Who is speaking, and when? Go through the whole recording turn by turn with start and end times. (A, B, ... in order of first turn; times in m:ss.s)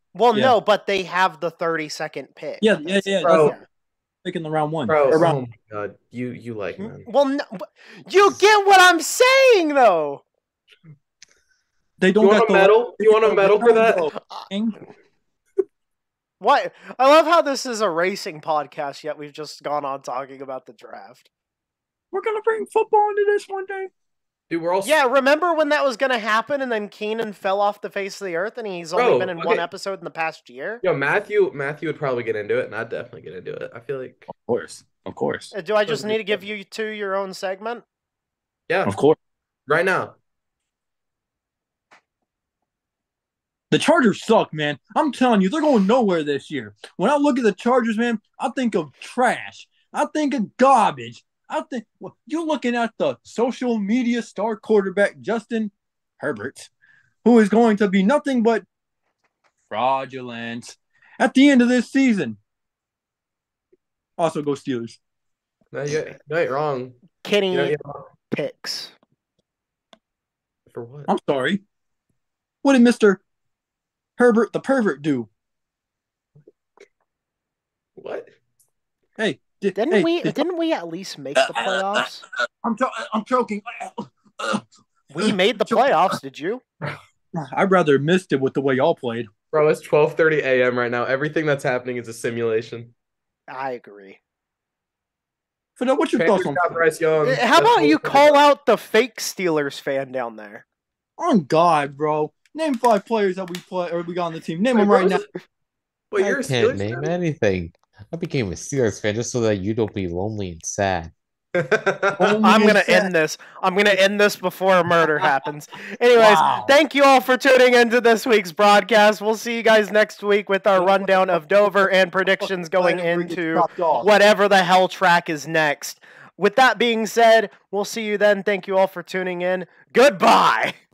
0:00.2-0:03.6 A
0:02.6-0:03.6 B
0:03.2-0:03.6 C
0:04.2-0:05.4 B
0:04.9-0:07.1 C
0:06.8-0:10.2 A
0:12.0-0:14.8 B
0:12.2-0:14.1 C
0:16.4-0:21.3 A
0:22.1-0:23.9 B
0:24.5-0:25.0 C
0:24.8-0:30.8 A
0:29.0-0:29.7 C
0:30.8-0:34.3 C
0:34.3-0:35.5 B
0:35.5-0:37.8 A
0:38.7-0:38.9 C
0:38.9-0:39.2 B
0:39.7-0:40.2 C
0:43.7-0:56.7 B
0:57.2-0:58.6 B
0:59.7-1:02.4 B
1:04.2-1:05.0 B
1:05.7-1:08.1 C
1:07.2-1:07.8 A
1:08.3-1:09.0 A
1:10.7-1:11.1 C
1:11.1-1:11.6 B
1:12.6-1:13.2 B
1:14.2-1:15.3 B
1:18.0-1:18.3 C
1:19.2-1:20.4 B
1:19.8-1:22.2 A
1:21.4-1:22.1 B
1:22.6-1:24.7 B
1:25.1-1:26.6 A
1:25.2-1:26.1 B
1:27.4-1:29.3 B
1:29.5-1:32.9 C
1:33.5-1:34.2 A
1:35.8-1:36.8 B
1:36.1-1:38.4 C
1:37.2-1:40.6 A
1:41.2-1:45.2 B
1:44.7-1:45.3 C
1:46.1-1:47.1 C
1:46.2-1:51.1 D
1:51.6-1:52.5 C
1:52.2-1:53.1 B
1:52.4-2:10.8 A
1:56.2-1:56.8 B
2:00.8-2:01.3 B
2:02.4-2:04.1 B